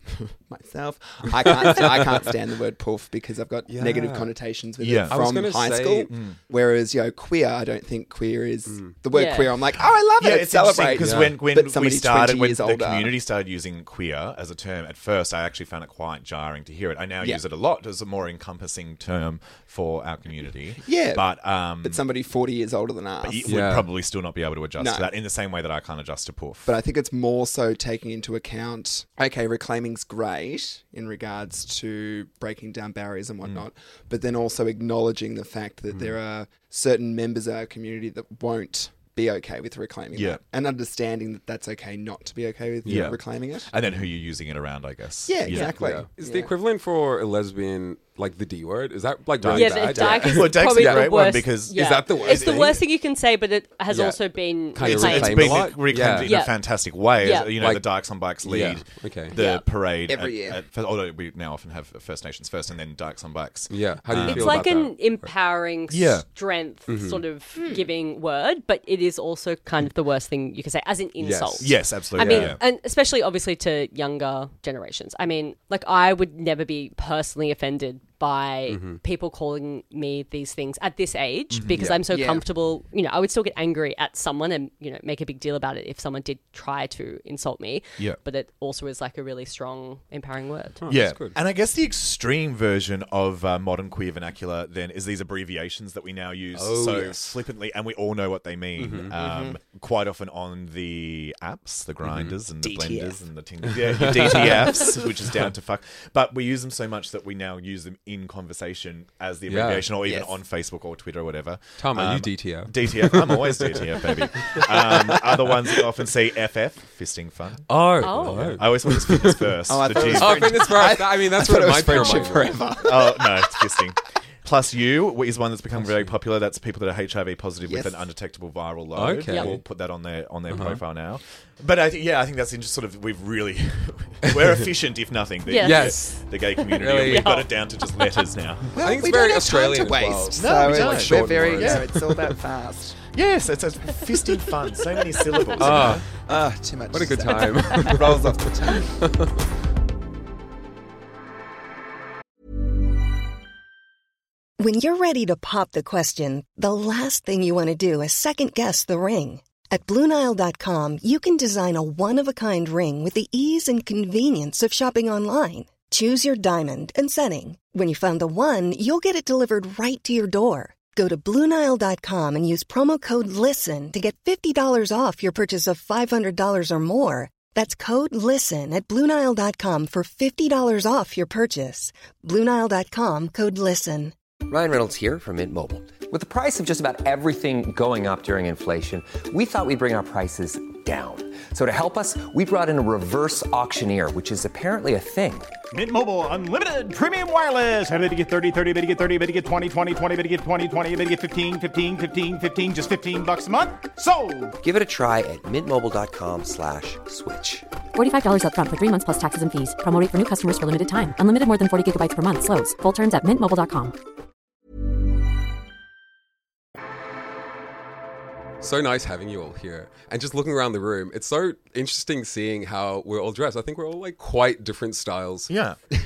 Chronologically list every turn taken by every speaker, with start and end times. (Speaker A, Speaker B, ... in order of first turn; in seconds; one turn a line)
Speaker A: 0.4-13.2
Speaker B: 1.5-2.1
Speaker B: 3.7-4.3
Speaker C: 4.8-6.4
Speaker B: 5.1-6.1
Speaker B: 8.7-8.9
Speaker D: 9.1-9.5
Speaker C: 10.2-22.0
Speaker B: 11.0-11.3
Speaker A: 20.8-23.7
Speaker C: 23.2-26.7
Speaker B: 23.5-23.9
Speaker A: 24.8-25.1
Speaker A: 26.7-43.7
Speaker C: 40.1-40.4
Speaker B: 42.9-43.1
Speaker C: 42.9-45.8
Speaker A: 45.3-46.5
Speaker B: 45.6-52.8
Speaker C: 49.4-52.8
Speaker D: 49.5-56.5
Speaker B: 53.9-54.2
Speaker B: 54.7-56.4
Speaker C: 54.8-64.9
Speaker D: 57.2-57.5
Speaker B: 57.6-59.3
Speaker D: 59.3-59.7
Speaker A: 60.1-60.6
Speaker B: 63.7-65.3
Speaker D: 64.3-90.8
Speaker C: 65.9-66.3
Speaker B: 66.9-67.2
Speaker A: 67.6-67.9
Speaker B: 71.2-72.6
Speaker C: 71.6-72.6
Speaker B: 78.7-79.0
Speaker C: 81.5-82.0
Speaker A: 81.8-82.5
Speaker B: 90.8-91.3
Speaker C: 90.9-121.0
Speaker B: 96.5-97.4
Speaker B: 98.8-99.2
Speaker A: 99.2-99.6
Speaker B: 102.0-102.4
Speaker A: 102.6-103.2
Speaker B: 103.7-104.9
Speaker A: 104.4-105.0
Speaker B: 109.5-109.9
Speaker A: 110.0-110.3
Speaker B: 111.8-115.5
Speaker B: 117.7-122.6
Speaker D: 118.0-118.6
Speaker A: 119.7-123.6
Speaker C: 121.9-138.8
Speaker B: 125.8-126.1
Speaker A: 127.7-128.1
Speaker B: 128.9-129.6
Speaker D: 129.3-129.5
Speaker B: 130.5-130.8
Speaker B: 134.2-134.7
Speaker D: 135.5-137.5
Speaker B: 135.6-136.2
Speaker B: 136.8-137.3
Speaker A: 138.8-143.0
Speaker B: 138.8-142.4
Speaker C: 140.3-142.0
Speaker C: 143.1-146.1
Speaker B: 145.6-146.1
Speaker A: 145.6-149.0
Speaker B: 146.9-149.3
Speaker E: 154.6-184.1
Speaker F: 184.5-195.5
Speaker G: 195.7-204.6
Speaker F: 204.6-207.7
Speaker H: 207.9-213.9
Speaker B: 218.6-225.5
Speaker C: 225.5-225.8